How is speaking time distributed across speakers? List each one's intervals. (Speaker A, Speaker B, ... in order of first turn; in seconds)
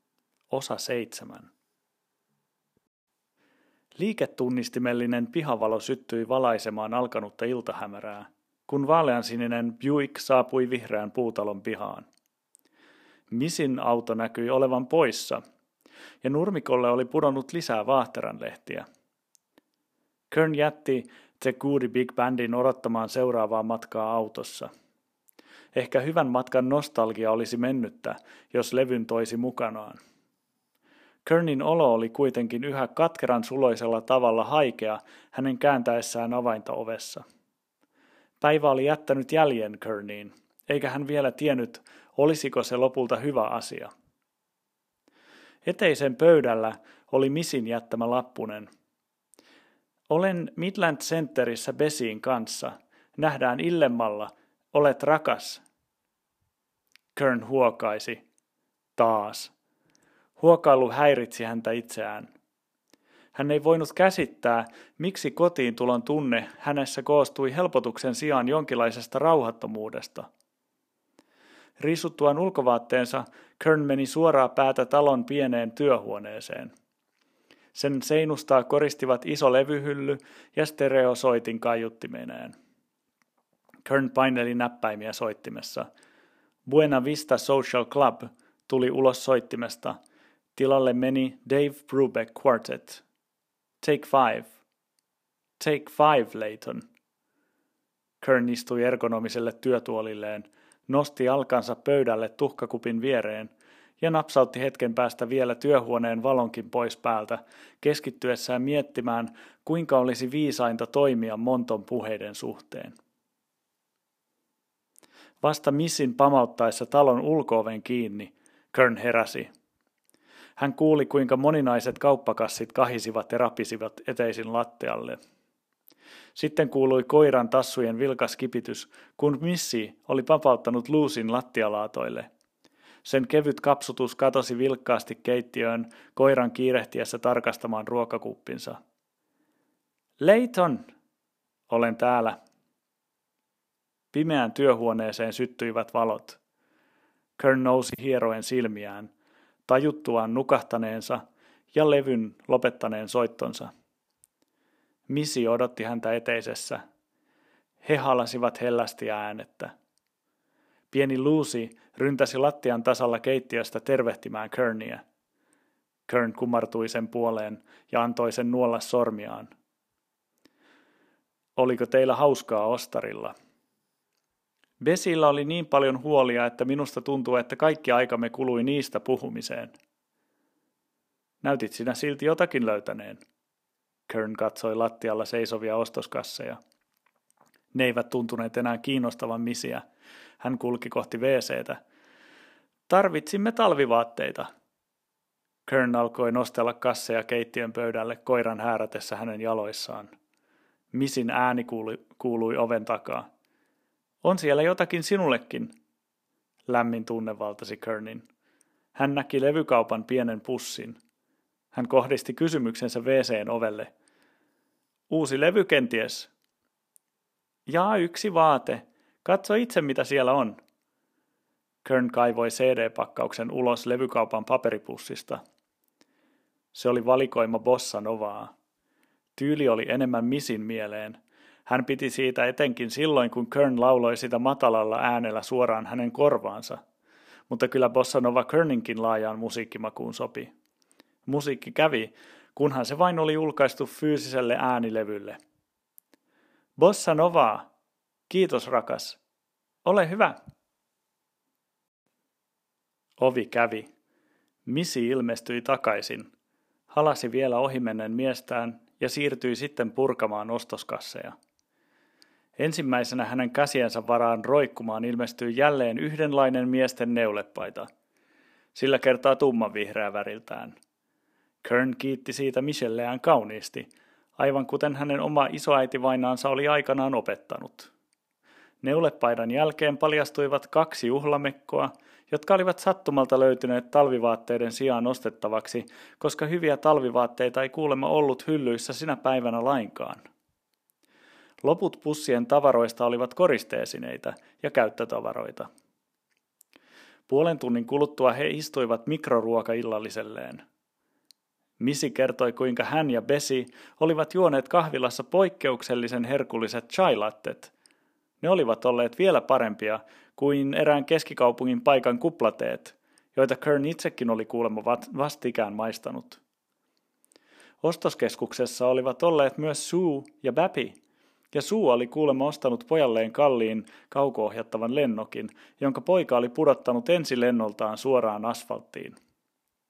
Speaker A: 0.5-1.5, 4.0-12.1, 13.3-15.4, 16.2-18.9, 20.3-24.7, 25.7-30.0, 31.2-37.2, 38.4-43.9, 45.6-48.7, 50.1-55.6, 57.1-58.2, 59.0-59.5, 60.4-62.3, 63.4-70.3, 71.8-76.7, 77.8-82.5, 83.8-85.9, 86.7-90.0, 90.6-93.0, 93.8-94.5, 95.6-96.8, 98.2-113.0, 115.4-119.5, 120.6-125.2, 126.4-132.3, 133.0-138.8, 140.2-140.9, 141.7-142.4, 144.1-146.4, 147.4-149.1, 149.7-151.2, 151.7-153.7, 155.1-156.8, 157.8-159.7, 160.9-165.0, 166.1-169.5, 171.6-173.3, 174.8-179.8, 181.4-183.2, 184.1-186.6, 187.7-189.8, 190.4-191.8, 192.9-194.5, 195.7-200.1, 200.9-203.3, 204.2-205.7, 206.7-208.2, 208.9-211.0, 211.7-213.9, 215.1-216.3, 217.7-220.6, 221.8-225.4, 226.7-228.5, 229.4-236.8, 237.5-240.5, 241.3-245.4, 246.8-247.7, 248.3-249.2, 249.8-250.4, 253.2-253.9, 254.7-256.3, 256.9-261.4, 262.6-267.9, 268.8-270.8, 271.6-277.9, 278.8-290.2, 291.6-295.7, 297.3-300.6, 301.8-307.7, 308.4-316.4, 317.8-321.0, 321.5-329.1